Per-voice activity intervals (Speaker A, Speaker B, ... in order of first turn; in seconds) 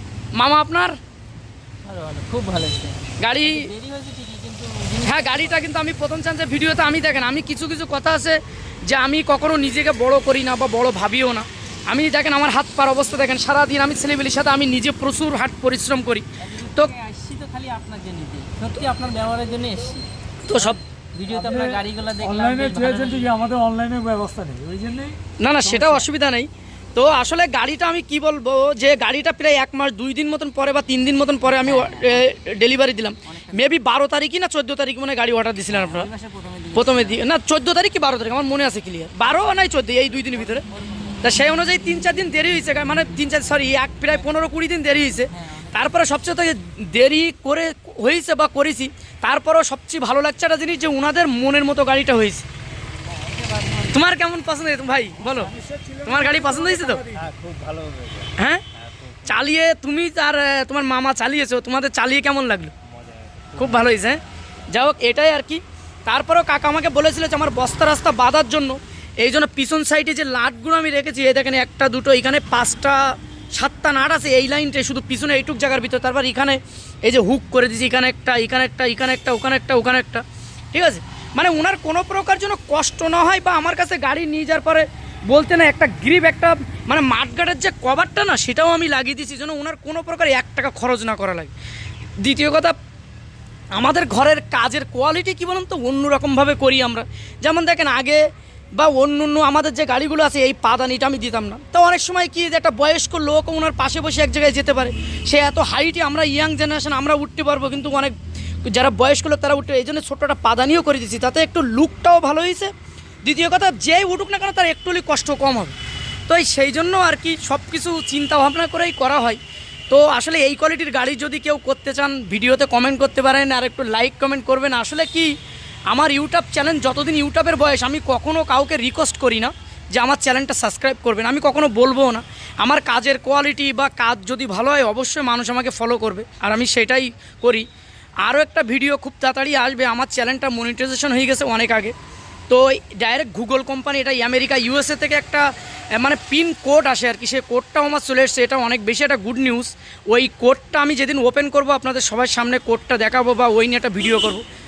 Speaker A: 0.3-1.0, 3.2-3.7, 5.0-16.9, 20.5-20.8, 25.4-36.1, 36.7-40.6, 41.2-52.5, 53.9-57.0, 58.4-58.6, 59.2-62.7, 63.6-91.5, 92.2-92.8, 93.7-98.2, 98.8-112.7, 113.2-115.8, 116.3-125.3, 125.9-137.7, 138.2-141.9, 142.5-154.4
Speaker B: 1.9-5.6, 16.4-23.4, 31.5-32.3, 33.3-33.7, 35.7-37.2, 40.2-41.6, 42.9-43.1, 45.2-46.1, 53.1-54.0, 57.3-58.3, 63.1-63.9
Speaker C: 21.3-25.2, 55.5-57.5